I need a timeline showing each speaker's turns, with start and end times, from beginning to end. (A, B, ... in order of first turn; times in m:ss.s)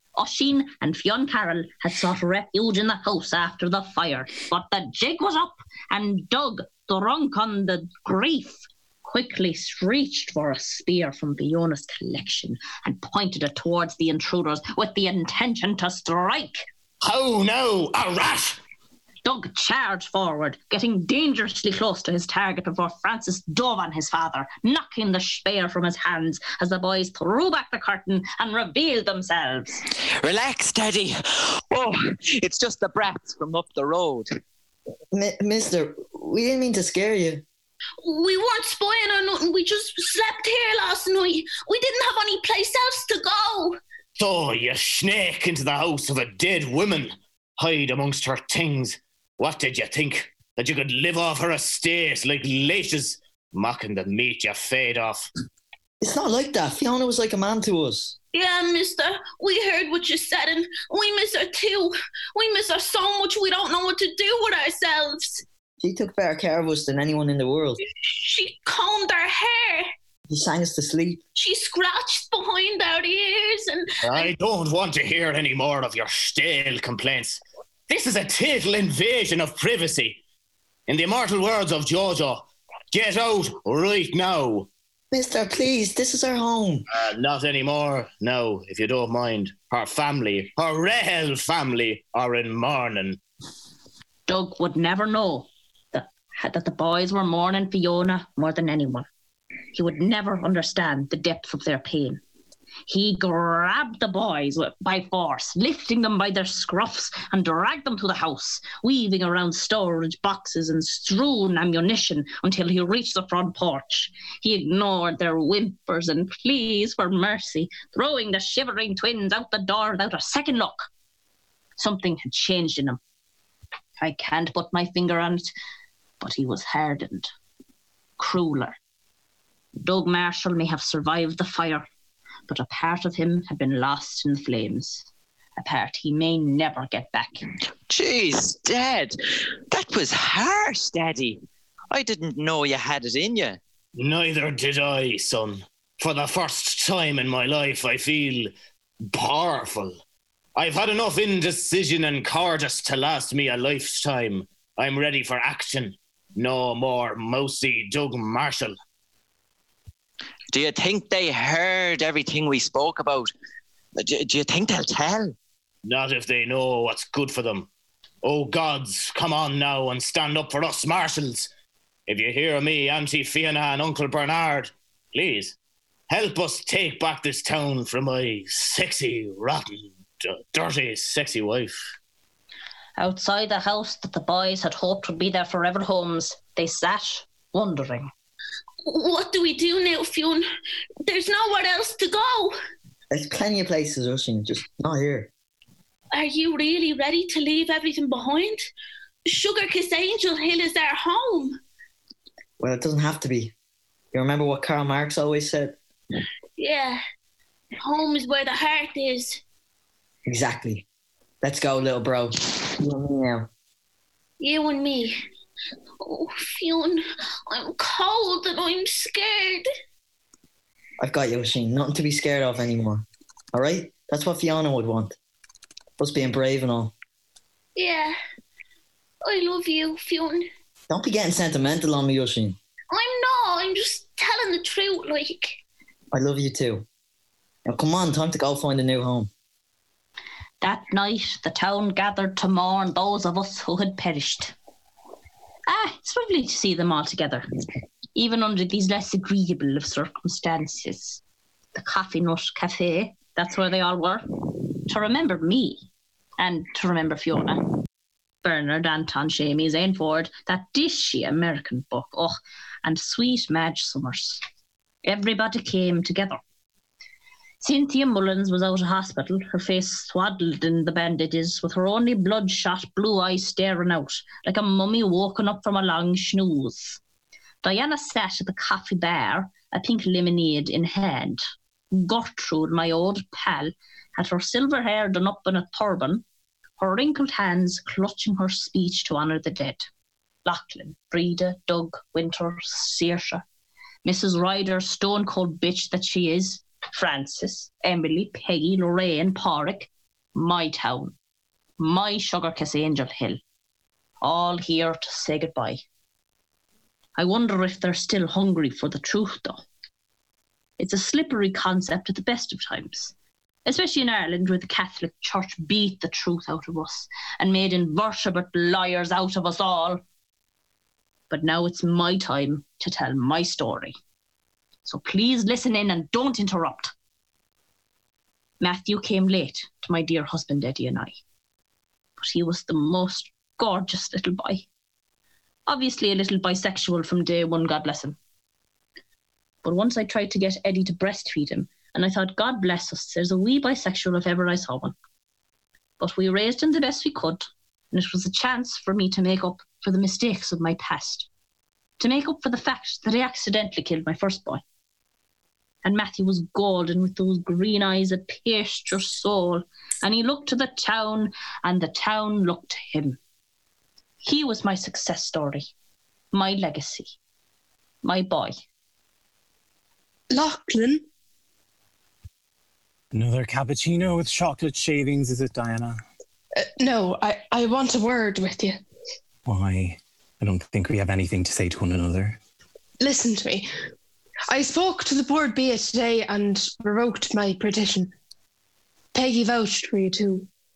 0:00.2-0:16.6 A
0:17.0-0:18.6 B
0:19.2-0:29.8 A
0:30.2-0:34.3 C
0:35.1-0:37.4 D
0:38.0-0:43.8 E
0:44.2-0:55.3 B
0:56.0-0:58.2 D
0:58.3-1:05.4 E
1:05.8-1:07.8 D
1:08.0-1:09.9 E
1:10.3-1:11.2 D
1:11.4-1:14.3 E
1:14.0-1:20.2 B
1:20.9-1:24.7 B
1:25.1-1:26.8 D
1:26.9-1:33.2 B
1:34.3-1:39.1 A
1:39.7-1:42.2 A
1:42.9-2:00.9 A
2:01.8-2:03.0 A
2:04.0-2:05.5 A
2:06.2-2:07.3 A
2:08.2-2:08.8 A
2:09.8-2:11.9 A
2:12.5-2:17.4 A
2:17.9-2:19.2 C
2:19.7-2:23.6 C
2:24.0-2:28.5 B
2:29.1-2:30.0 B
2:30.6-2:38.7 B
2:40.5-2:43.3 C
2:44.0-2:45.4 C
2:45.8-2:47.7 B
2:48.2-2:51.5 B
2:52.1-2:55.6 B
2:56.1-3:01.9 B
3:03.0-3:08.1 A
3:08.9-3:10.4 E
3:11.0-3:12.6 E
3:13.1-3:15.3 D
3:16.1-3:18.7 E
3:19.3-3:21.6 E
3:22.6-3:23.5 D
3:24.1-3:25.8 D
3:26.6-3:27.0 E
3:27.8-3:29.4 E
3:30.3-3:30.8 D
3:31.4-3:33.5 D
3:34.4-3:35.2 E
3:36.0-3:39.7 E
3:41.0-3:45.2 D
3:46.0-3:46.9 D
3:47.8-3:48.2 E
3:49.2-3:50.5 E
3:50.9-3:52.6 D
3:52.9-3:55.6 E
3:56.1-3:56.9 D
3:57.6-3:59.3 D
4:00.6-4:04.5 A
4:05.7-4:07.5 A
4:08.2-4:11.2 A
4:11.8-4:14.3 A
4:14.9-4:15.9 A
4:16.4-4:17.8 A
4:18.4-4:24.4 A
4:25.0-4:26.4 A
4:27.6-4:37.0 A
4:37.6-4:46.2 A
4:46.8-4:49.9 A
4:50.4-4:53.4 A
4:54.0-5:01.1 A
5:01.8-5:03.4 A
5:04.2-5:05.8 A
5:07.2-5:09.6 A
5:10.8-5:13.1 A
5:13.6-5:20.0 A
5:21.3-5:24.0 A
5:24.8-5:26.9 A
5:28.6-5:31.2 A
5:32.2-5:34.7 A
5:35.7-5:38.2 A
5:39.6-5:45.0 A
5:46.0-5:51.3 A
5:52.0-5:54.6 A
5:55.8-6:03.2 A
6:04.2-6:05.7 A
6:06.3-6:07.2 A
6:08.0-6:08.6 A
6:10.3-6:11.0 F
6:13.1-6:16.0 G
6:16.6-6:18.8 F
6:19.5-6:22.4 G
6:23.0-6:23.7 F
6:24.5-6:28.1 F
6:29.1-6:30.5 F